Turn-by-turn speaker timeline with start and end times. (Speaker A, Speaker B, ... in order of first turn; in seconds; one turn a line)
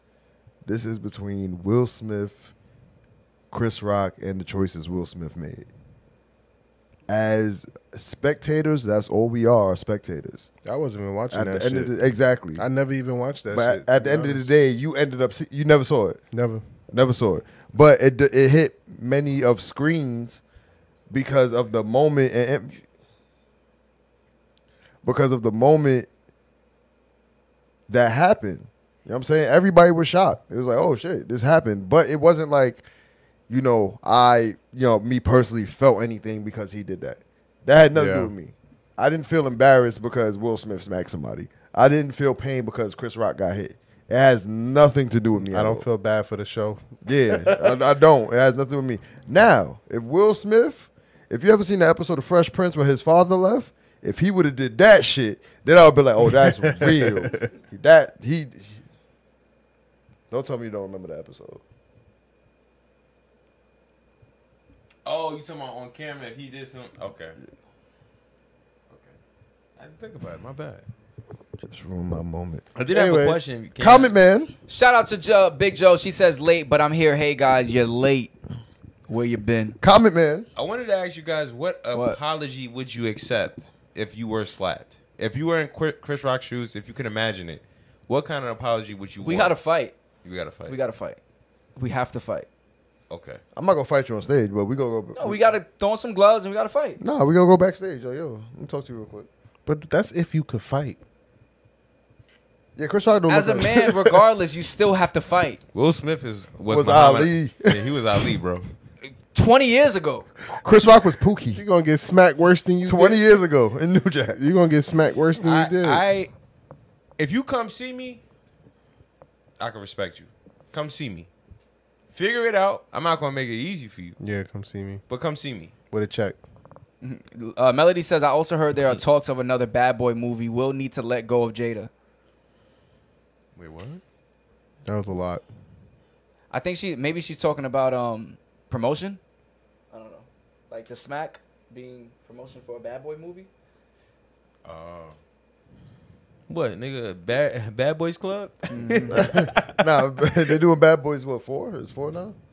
Speaker A: 0.6-2.5
Speaker A: 3.5-5.7
Speaker A: 7.1-10.5
Speaker B: 10.6-14.5
Speaker A: 11.3-12.6
Speaker A: 13.5-16.2
Speaker B: 16.3-16.6
Speaker A: 16.9-20.4
Speaker A: 21.1-22.8
Speaker A: 25.0-26.1
Speaker A: 27.9-32.8
Speaker A: 33.5-45.9
Speaker B: 37.9-38.3
Speaker B: 45.5-47.6
Speaker A: 47.0-58.8
Speaker A: 60.3-61.6
Speaker C: 65.0-67.4
Speaker C: 68.9-69.1
Speaker C: 69.8-70.8
Speaker A: 71.6-72.7
Speaker C: 72.7-74.1
Speaker B: 72.9-73.4
Speaker A: 73.8-74.5
Speaker D: 74.7-78.3
Speaker D: 79.1-79.8
Speaker A: 79.8-80.5
Speaker C: 80.5-89.6
Speaker D: 81.9-82.2
Speaker D: 89.2-90.0
Speaker C: 90.2-90.8
Speaker D: 90.7-91.2
Speaker D: 91.8-92.5
Speaker C: 93.1-93.4
Speaker A: 93.5-95.4
Speaker D: 95.1-97.0
Speaker A: 97.0-99.3
Speaker B: 99.7-101.0
Speaker A: 102.8-104.2
Speaker D: 103.3-105.6
Speaker C: 105.7-108.7
Speaker A: 106.7-108.2
Speaker D: 109.0-110.3
Speaker A: 110.5-111.6
Speaker B: 111.5-113.2
Speaker A: 112.8-114.4
Speaker B: 114.3-116.0
Speaker C: 115.3-116.3
Speaker C: 117.2-118.2
Speaker C: 119.6-121.3
Speaker C: 122.1-124.2
Speaker B: 124.2-125.0
Speaker C: 125.1-125.7
Speaker B: 125.9-126.4
Speaker D: 127.0-131.9
Speaker C: 133.6-134.0
Speaker B: 134.8-135.4
Speaker D: 136.5-139.2
Speaker D: 139.9-143.5
Speaker C: 144.6-145.2
Speaker C: 146.5-149.8
Speaker D: 148.7-149.2
Speaker A: 149.1-152.3